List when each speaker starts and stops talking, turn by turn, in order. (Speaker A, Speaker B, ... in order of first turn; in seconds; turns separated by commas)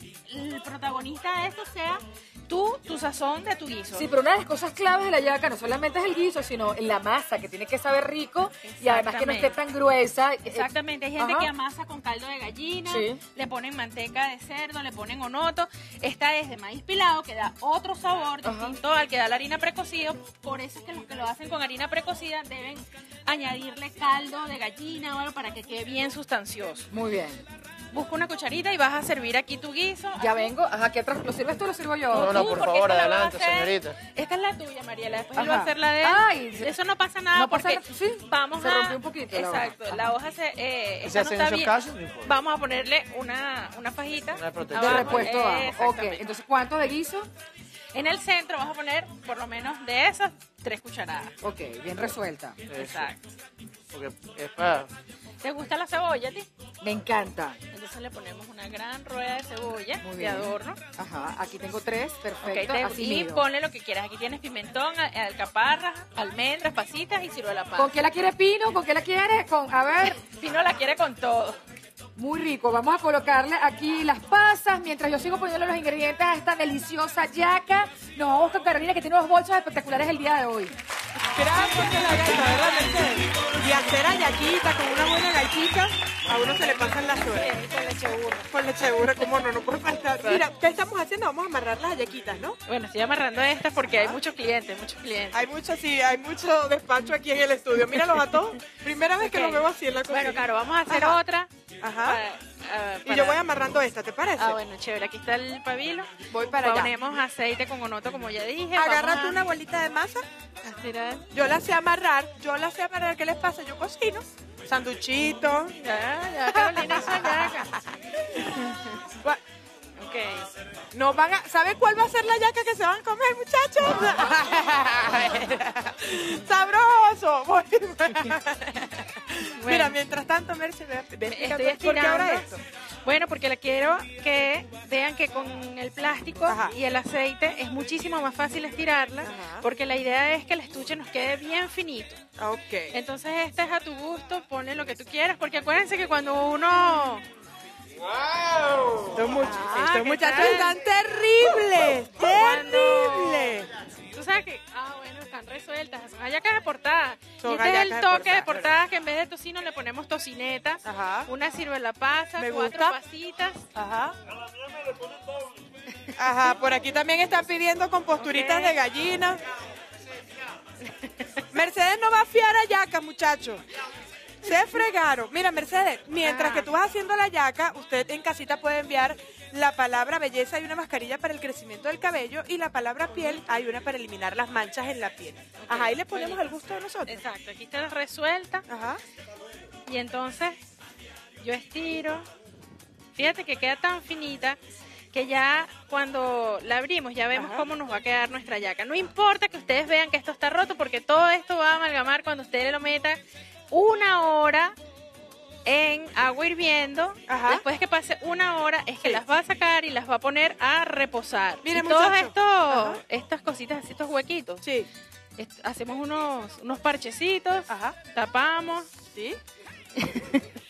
Speaker A: 0.3-4.0, Speaker B: 3.9-11.5, Speaker A: 8.6-9.6, Speaker A: 10.5-26.9, Speaker B: 12.9-13.2, Speaker B: 18.4-18.8, Speaker B: 26.9-27.4, Speaker A: 27.9-30.5, Speaker B: 30.2-32.6, Speaker A: 32.1-46.2, Speaker C: 32.1-34.0, Speaker B: 35.4-36.7, Speaker B: 37.3-40.1, Speaker C: 41.0-42.3, Speaker C: 44.3-45.3, Speaker B: 44.7-47.3, Speaker A: 47.9-51.3, Speaker B: 51.4-52.7, Speaker C: 52.7-53.1, Speaker A: 52.7-53.3, Speaker C: 53.9-54.9, Speaker A: 55.4-56.5, Speaker B: 56.8-57.6, Speaker A: 57.7-60.8, Speaker B: 60.0-63.4, Speaker A: 62.4-67.9, Speaker B: 67.8-70.2, Speaker A: 70.0-71.6, Speaker B: 72.2-80.7, Speaker D: 81.3-87.5, Speaker A: 81.6-82.9, Speaker A: 86.6-88.5, Speaker D: 88.5-92.6, Speaker A: 92.7-95.4, Speaker D: 93.8-94.2, Speaker D: 95.3-101.2, Speaker A: 99.2-101.5, Speaker D: 101.8-102.2, Speaker A: 102.0-103.4, Speaker D: 103.0-104.6, Speaker A: 104.4-109.4, Speaker D: 106.3-106.9, Speaker D: 108.7-110.2, Speaker A: 110.6-111.2, Speaker D: 111.3-115.7, Speaker A: 115.7-117.7, Speaker D: 116.5-117.6, Speaker A: 118.4-119.0, Speaker A: 120.0-120.5, Speaker D: 120.9-132.6, Speaker A: 129.6-129.9, Speaker A: 131.2-132.4, Speaker A: 133.0-142.2, Speaker D: 136.5-136.7, Speaker D: 139.2-139.6, Speaker D: 142.4-142.9, Speaker A: 142.9-147.2, Speaker D: 149.1-153.7, Speaker A: 149.4-150.7, Speaker A: 152.2-153.5, Speaker A: 154.1-163.7, Speaker D: 157.4-158.7, Speaker D: 160.8-161.3, Speaker D: 162.4-162.9, Speaker D: 163.7-164.2, Speaker D: 166.2-169.4, Speaker A: 168.2-168.7, Speaker A: 171.0-171.3, Speaker D: 171.5-173.6, Speaker D: 174.4-187.2, Speaker A: 176.2-176.7, Speaker A: 183.1-183.4, Speaker A: 185.6-186.4, Speaker A: 187.1-188.6, Speaker D: 188.7-189.0, Speaker A: 189.8-190.6, Speaker A: 191.4-192.2, Speaker A: 193.1-194.6, Speaker A: 195.1-204.7, Speaker D: 197.3-197.7, Speaker A: 205.6-214.6, Speaker D: 207.3-207.6, Speaker D: 211.6-213.0, Speaker D: 214.6-214.9, Speaker A: 215.4-218.9, Speaker D: 217.7-218.0, Speaker D: 219.1-219.4, Speaker A: 220.0-220.4